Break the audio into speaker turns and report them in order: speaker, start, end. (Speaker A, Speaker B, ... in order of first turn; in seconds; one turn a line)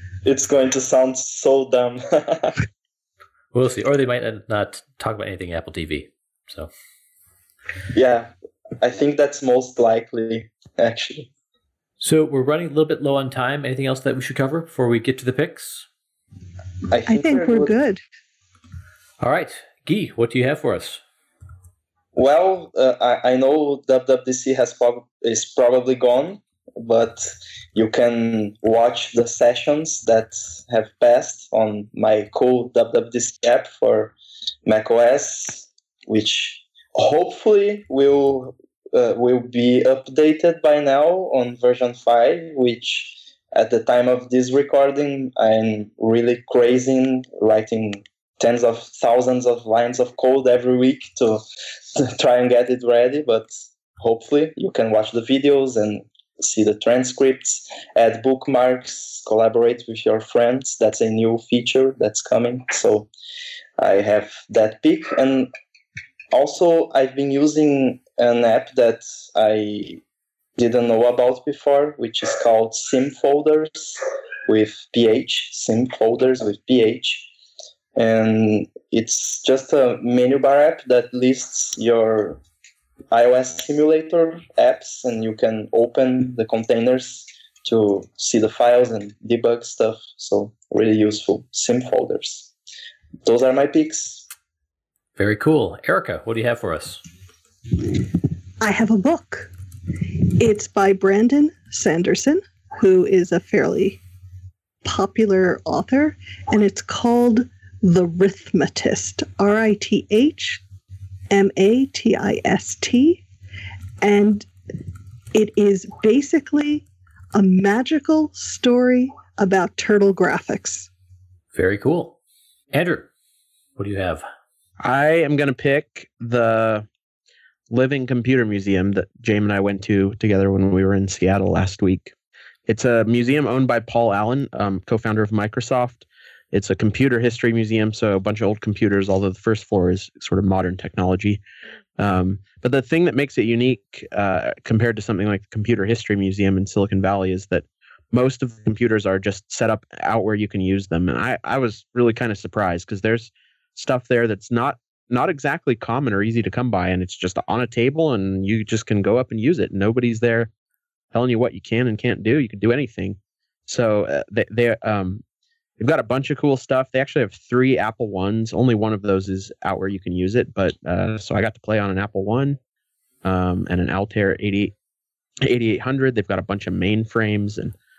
Speaker A: 0.2-2.6
Speaker B: 3.5-6.7
Speaker A: 7.9-11.3
Speaker B: 12.0-15.9
Speaker A: 16.9-17.7
Speaker C: 17.1-18.0
Speaker B: 19.2-21.0
Speaker A: 22.1-34.1
Speaker A: 34.6-51.4
Speaker A: 52.0-63.1
Speaker A: 63.8-65.5
Speaker A: 66.3-70.0
Speaker A: 70.6-77.3
Speaker A: 78.0-82.4
Speaker A: 83.1-92.5
Speaker A: 93.2-94.2
Speaker B: 95.2-97.0
Speaker C: 98.6-99.5
Speaker C: 100.2-104.0
Speaker C: 104.8-110.6
Speaker C: 111.3-113.2
Speaker C: 114.0-114.5
Speaker C: 115.3-120.9
Speaker B: 121.5-122.2
Speaker B: 122.7-123.1
Speaker B: 123.8-124.2
Speaker D: 124.8-126.8
Speaker D: 127.7-132.1
Speaker D: 132.7-141.4
Speaker D: 142.0-160.5
Speaker D: 161.1-165.2
Speaker D: 165.8-172.6
Speaker D: 173.2-174.7
Speaker D: 175.4-177.7